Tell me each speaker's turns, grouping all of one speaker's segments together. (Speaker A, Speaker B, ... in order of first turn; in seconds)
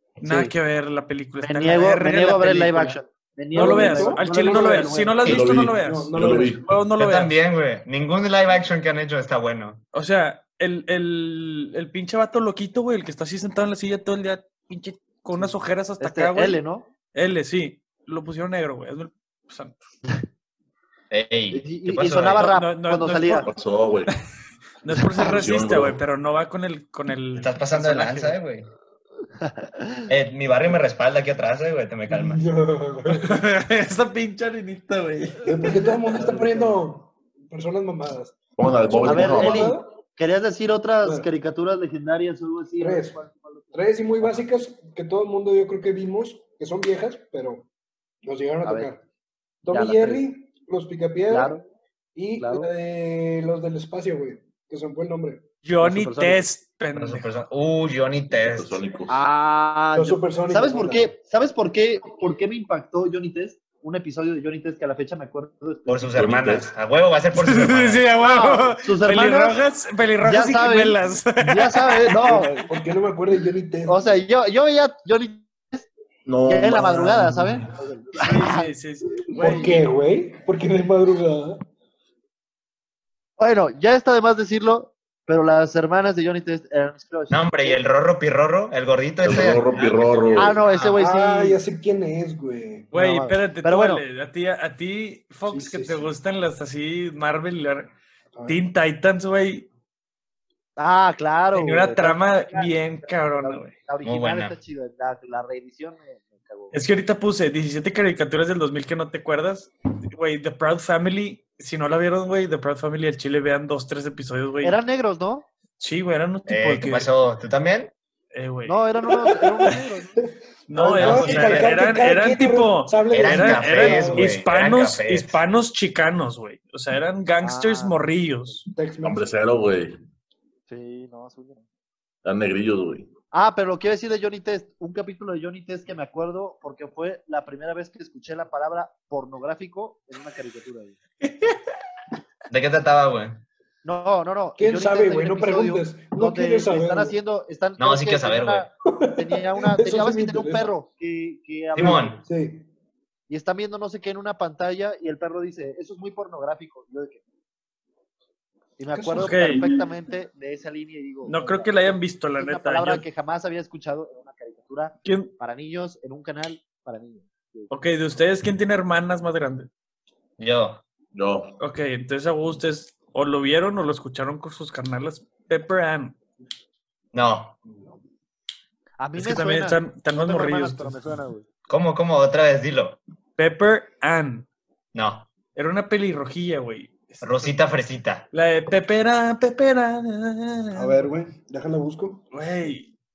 Speaker A: 0.2-0.5, 1.4-5.3, 15.3-16.9, 21.5-23.5, 25.0-25.4, 29.4-30.1, 36.2-36.8, 39.0-44.5, 48.6-48.9, 49.7-50.3, 51.3-51.6, 52.4-52.7, 55.8-56.5, 59.1-66.1, 68.2-69.6, 70.2-72.6, 73.9-75.9, 76.5-78.7, 79.4-79.7, 83.4-87.8, 90.3-91.6, 92.9-94.0, 100.8-106.8, 114.6-115.5, 118.7-120.2, 127.4-128.6, 130.7-131.6, 133.3-141.0, 143.8-152.2, 153.3-157.2, 158.8-167.7, 179.0-181.5
Speaker B: 0.2-3.0, 3.5-7.4, 9.9-16.6, 17.1-19.8, 22.4-23.5, 24.8-28.4, 33.1-35.5, 55.6-57.3, 67.3-72.4, 78.2-79.8, 92.9-97.9, 98.5-99.7, 101.5-103.7, 106.7-114.8, 115.8-117.1, 118.3-118.8, 120.7-128.6, 141.2-141.6, 159.1-159.8, 161.3-163.1, 165.0-165.3, 167.7-169.7, 171.6-176.2, 179.2-181.0, 183.4-184.5, 185.6-187.6, 188.3-191.0, 192.3-192.9
Speaker C: 3.5-5.0, 5.5-6.6, 32.1-33.4, 35.5-39.9, 42.8-43.2, 43.7-47.7, 48.2-49.0, 49.6-51.6, 52.1-55.5, 60.0-61.1, 72.1-74.0, 79.3-81.6, 91.0-92.9, 95.5-96.1, 98.3-98.6, 119.4-124.4, 128.7-129.3, 144.6-147.2, 148.9-150.7, 151.8-152.7, 158.9-159.8, 177.6-178.0, 190.7-192.2
Speaker D: 5.2-6.7, 23.4-24.1, 25.2-26.0, 38.6-39.8, 58.3-59.2, 66.1-66.7, 76.3-77.7, 89.2-90.6, 129.0-130.0, 132.2-133.1, 171.1-171.6
Speaker E: 7.0-9.8, 21.1-22.5, 27.4-28.7, 30.1-32.4, 57.0-58.8, 65.9-68.1, 87.3-90.9, 104.0-104.6, 116.5-117.9, 120.8-121.9, 123.1-125.4, 142.5-143.4, 147.8-148.7, 151.8-152.2, 170.4-170.8, 177.1-177.6, 181.7-183.0, 184.9-185.3, 187.2-188.3